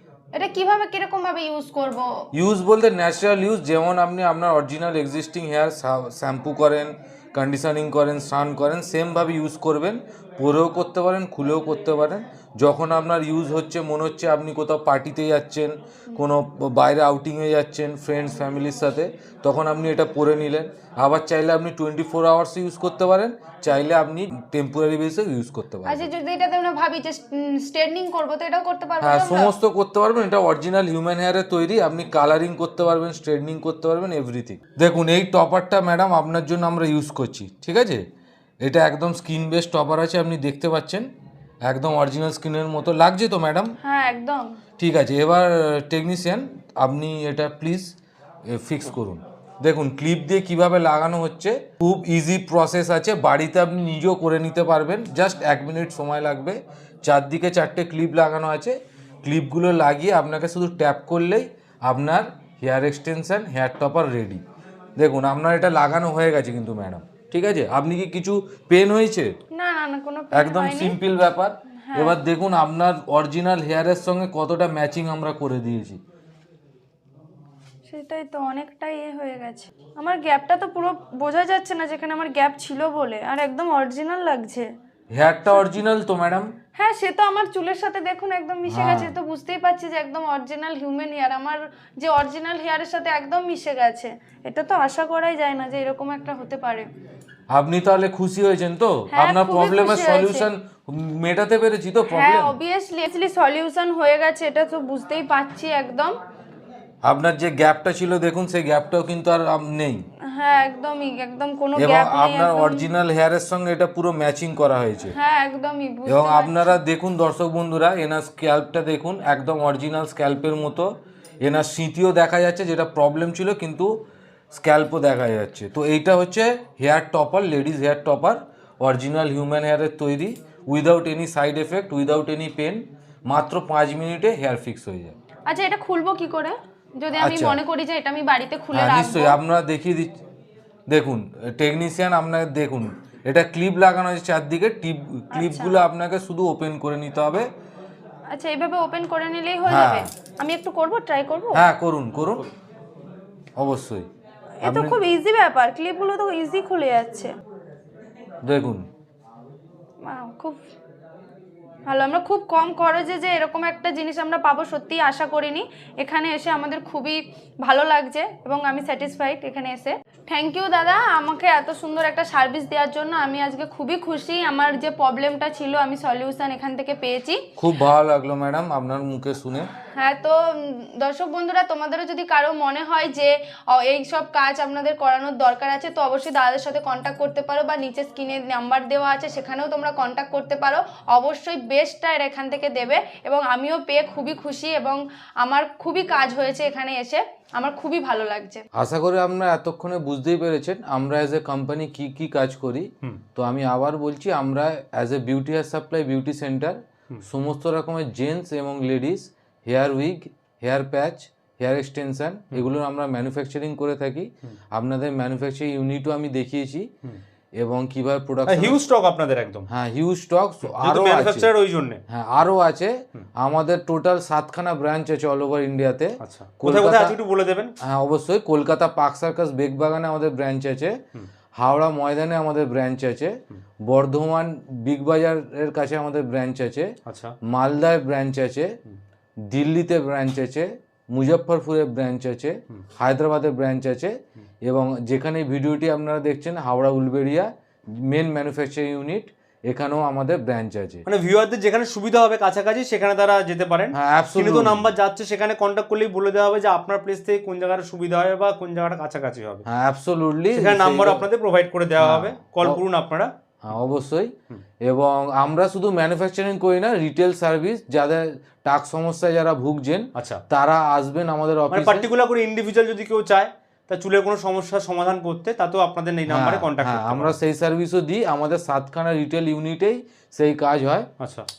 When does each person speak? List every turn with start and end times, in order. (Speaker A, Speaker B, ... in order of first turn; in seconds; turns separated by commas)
Speaker A: 0.3-2.1, Speaker B: 2.3-26.1, Speaker A: 25.9-29.5, Speaker B: 29.0-38.0, Speaker B: 38.6-41.1, Speaker B: 41.6-43.7, Speaker A: 43.8-44.6, Speaker B: 44.8-64.4, Speaker B: 65.0-69.4, Speaker A: 69.5-71.0, Speaker B: 70.3-76.0, Speaker A: 71.8-72.2, Speaker A: 77.9-84.7, Speaker B: 85.1-86.5, Speaker A: 86.8-96.9, Speaker B: 88.7-89.2, Speaker B: 97.5-102.6, Speaker A: 99.1-100.5, Speaker A: 102.1-106.2, Speaker B: 107.0-110.1, Speaker A: 110.3-112.9, Speaker B: 111.8-115.2, Speaker A: 115.2-116.8, Speaker B: 116.1-135.2, Speaker A: 135.5-139.4, Speaker B: 137.2-137.6, Speaker B: 138.7-140.2, Speaker B: 140.9-147.5, Speaker A: 145.3-145.8, Speaker A: 148.3-151.6, Speaker B: 149.7-150.1, Speaker B: 151.5-152.4, Speaker B: 153.6-154.1, Speaker A: 154.6-157.3, Speaker B: 154.6-155.1, Speaker B: 158.4-158.9, Speaker A: 160.0-160.6, Speaker A: 161.9-177.4, Speaker B: 177.6-179.7, Speaker A: 180.0-198.6, Speaker B: 198.8-216.9, Speaker B: 217.6-218.8, Speaker C: 218.5-219.7, Speaker B: 219.7-221.5, Speaker C: 220.7-222.0, Speaker B: 222.1-227.2, Speaker C: 226.2-227.7, Speaker B: 227.8-231.0, Speaker B: 231.5-236.9, Speaker C: 237.1-237.3, Speaker B: 237.5-238.8, Speaker B: 239.4-251.1, Speaker C: 251.1-259.6, Speaker B: 253.9-254.9, Speaker B: 259.7-261.2, Speaker C: 260.5-263.3, Speaker B: 262.0-262.8, Speaker B: 263.6-272.1, Speaker C: 270.2-270.4, Speaker C: 271.7-277.4, Speaker B: 276.3-281.1, Speaker C: 281.2-281.5